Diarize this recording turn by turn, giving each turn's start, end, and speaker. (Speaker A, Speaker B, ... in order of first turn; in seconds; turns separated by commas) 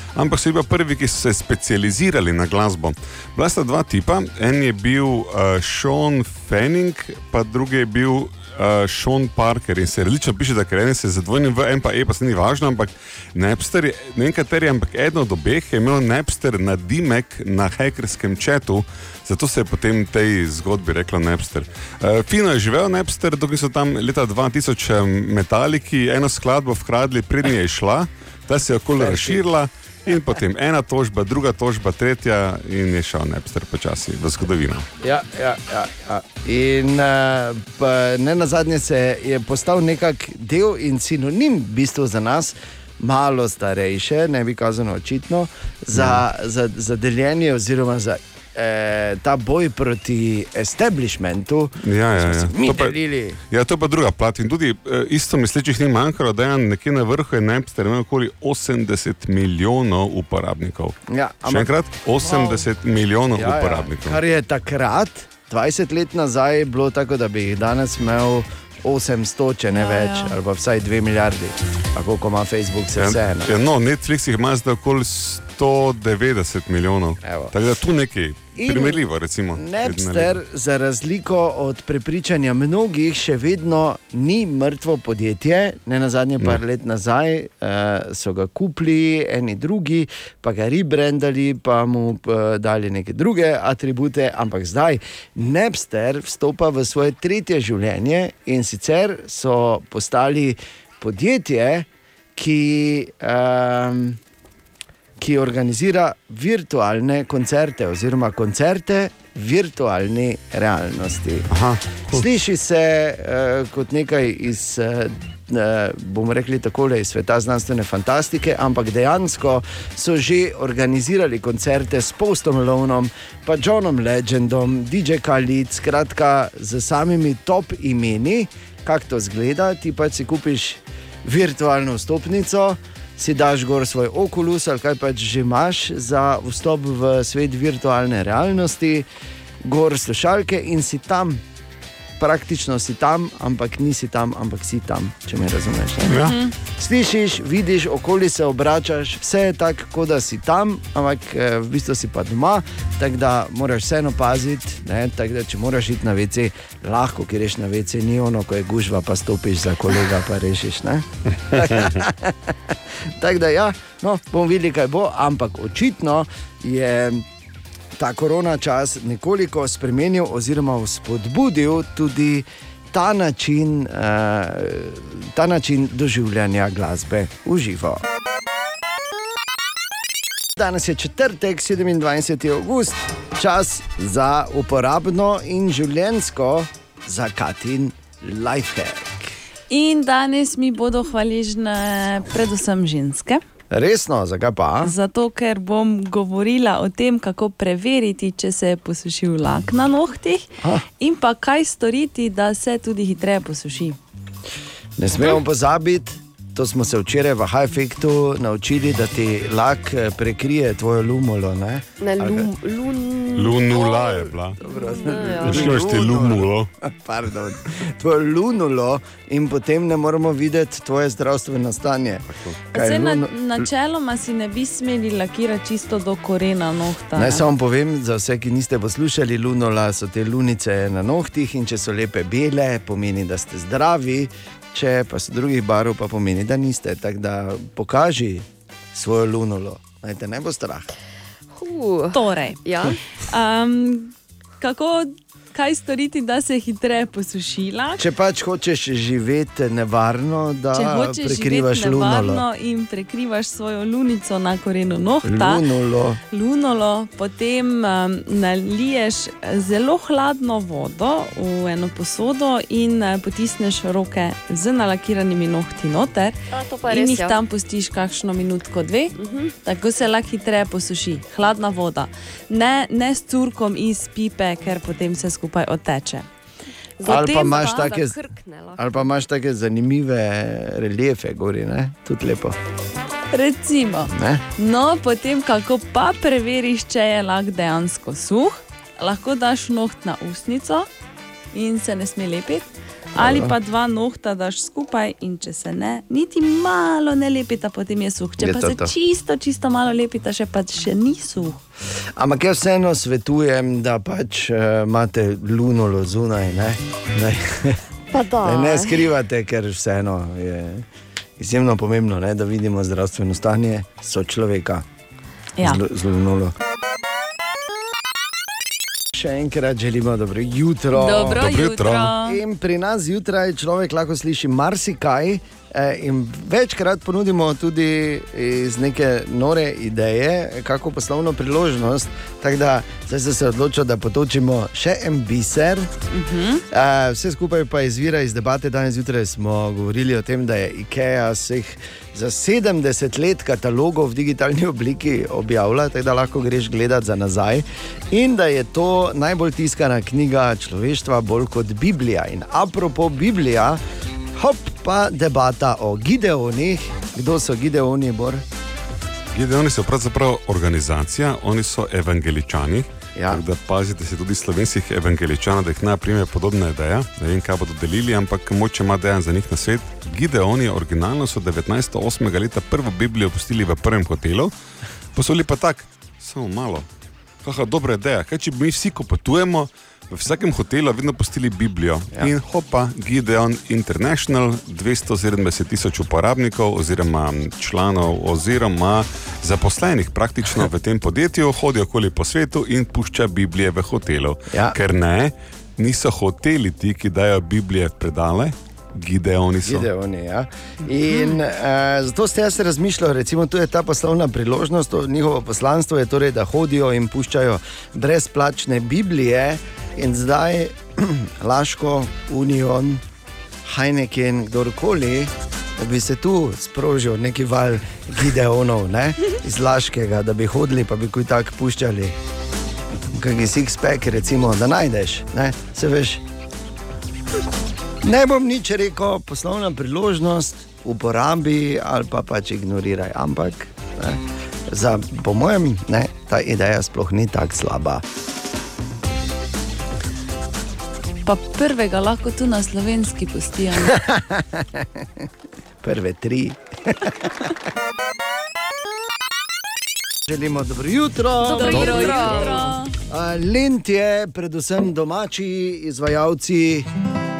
Speaker A: 0.1-34.9, Speaker B: 28.9-29.5, Speaker B: 35.0-53.4, Speaker A: 45.9-46.2, Speaker A: 51.8-53.0, Speaker A: 53.5-64.2, Speaker B: 61.1-61.7, Speaker B: 62.3-62.5, Speaker B: 63.3-73.5, Speaker C: 69.7-70.3, Speaker A: 73.0-80.4, Speaker B: 77.2-77.5, Speaker B: 78.6-79.0, Speaker B: 79.5-104.2, Speaker B: 105.2-111.5, Speaker A: 111.5-112.2, Speaker B: 112.1-139.1, Speaker B: 139.6-141.4, Speaker B: 142.2-146.2, Speaker A: 146.1-146.4, Speaker C: 146.2-146.5, Speaker B: 146.8-167.2, Speaker A: 161.7-162.0, Speaker B: 168.0-178.0, Speaker B: 180.6-189.3, Speaker C: 189.7-193.4, Speaker B: 193.7-194.9, Speaker C: 194.8-204.0, Speaker B: 205.0-212.4, Speaker D: 212.0-215.7, Speaker A: 213.3-214.6, Speaker B: 214.6-223.7, Speaker A: 215.3-216.7, Speaker C: 222.7-227.4, Speaker B: 227.1-240.9, Speaker D: 241.6-243.0, Speaker C: 242.1-248.0, Speaker B: 248.0-252.4, Speaker C: 250.7-255.6, Speaker B: 255.2-256.2, Speaker C: 256.3-266.4, Speaker D: 266.5-267.4, Speaker C: 266.9-276.3, Speaker D: 269.2-269.5, Speaker D: 277.0-279.0, Speaker C: 277.0-278.1, Speaker B: 277.0-278.2, Speaker B: 278.8-282.6, Speaker C: 283.3-290.9, Speaker B: 284.1-284.4, Speaker C: 291.5-301.6, Speaker B: 293.2-293.5, Speaker B: 298.4-298.9, Speaker B: 302.2-307.8, Speaker D: 308.1-309.0, Speaker B: 308.4-310.9, Speaker B: 311.4-314.8, Speaker C: 315.6-315.8, Speaker B: 315.6-316.5, Speaker B: 319.1-321.5, Speaker C: 320.9-322.4, Speaker A: 321.3-322.1, Speaker B: 322.1-335.9, Speaker C: 336.1-336.6, Speaker B: 336.7-353.8, Speaker B: 354.4-358.4, Speaker A: 359.3-374.5, Speaker B: 363.1-363.4, Speaker A: 375.1-376.9, Speaker A: 377.4-399.9, Speaker B: 394.5-394.8, Speaker B: 399.6-413.0, Speaker B: 413.6-422.1, Speaker B: 423.1-426.2, Speaker B: 428.0-438.0, Speaker C: 441.2-444.0, Speaker B: 443.8-445.1, Speaker B: 445.8-447.5, Speaker B: 450.2-452.6, Speaker C: 451.4-452.9, Speaker D: 451.6-452.6, Speaker A: 451.8-452.2, Speaker B: 453.1-456.9